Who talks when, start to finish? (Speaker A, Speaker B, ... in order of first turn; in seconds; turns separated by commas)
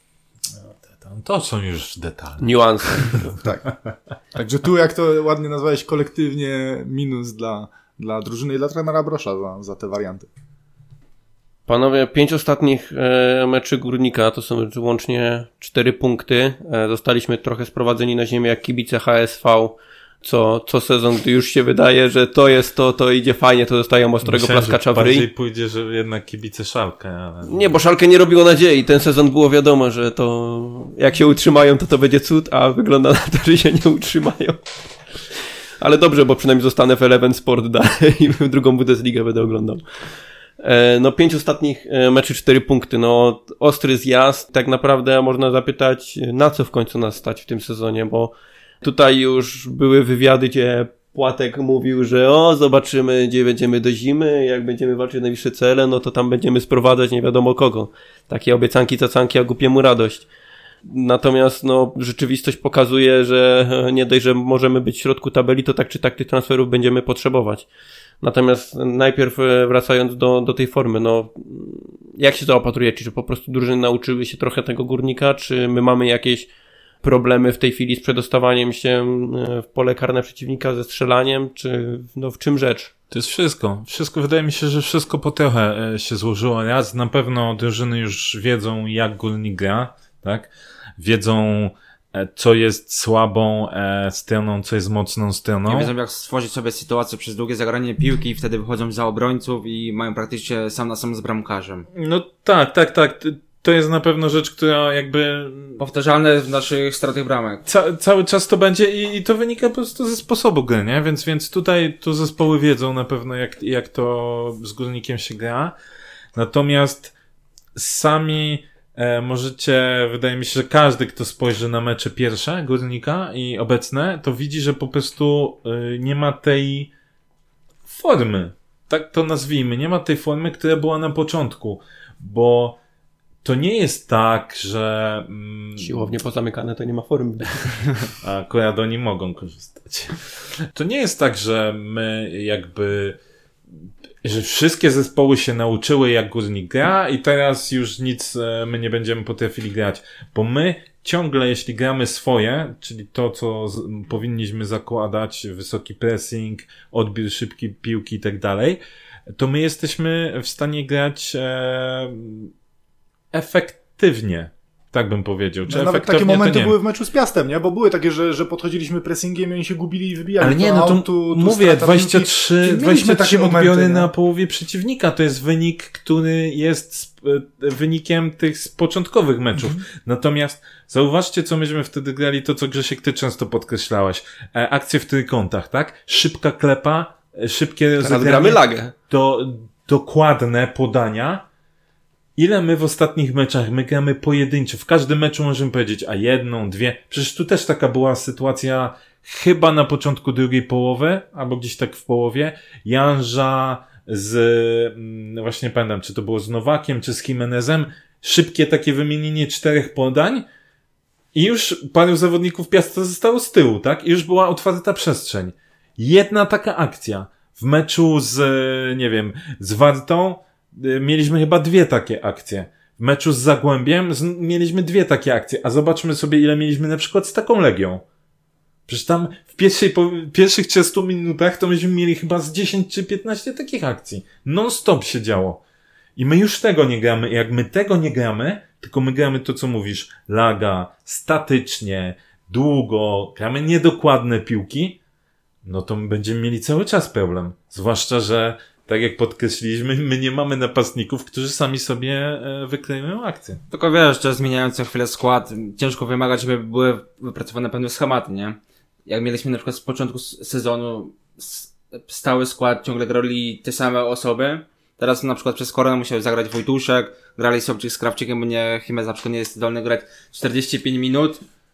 Speaker A: 0.6-3.2, Speaker B: 2.4-3.3, Speaker C: 4.3-10.3, Speaker B: 11.7-25.3, Speaker A: 24.2-27.7, Speaker B: 27.5-34.6, Speaker B: 35.8-39.8, Speaker B: 40.6-60.3, Speaker B: 60.9-67.7, Speaker B: 68.2-76.5, Speaker B: 77.0-82.9, Speaker A: 83.1-95.9, Speaker D: 95.7-101.9, Speaker A: 101.9-105.8, Speaker D: 105.8-107.6, Speaker A: 107.7-115.8, Speaker A: 116.3-117.1, Speaker A: 117.8-126.9, Speaker A: 127.9-132.8, Speaker A: 133.4-136.1, Speaker B: 135.8-138.1, Speaker A: 138.2-143.2, Speaker A: 144.2-158.8, Speaker A: 159.3-162.5, Speaker A: 163.3-166.7, Speaker C: 165.7-174.1, Speaker A: 170.4-191.4, Speaker C: 179.6-179.8, Speaker B: 188.0-188.9, Speaker A: 192.4-210.5, Speaker A: 211.3-228.0, Speaker A: 228.9-235.6, Speaker A: 236.2-245.0, Speaker A: 245.6-253.6, Speaker D: 253.7-271.4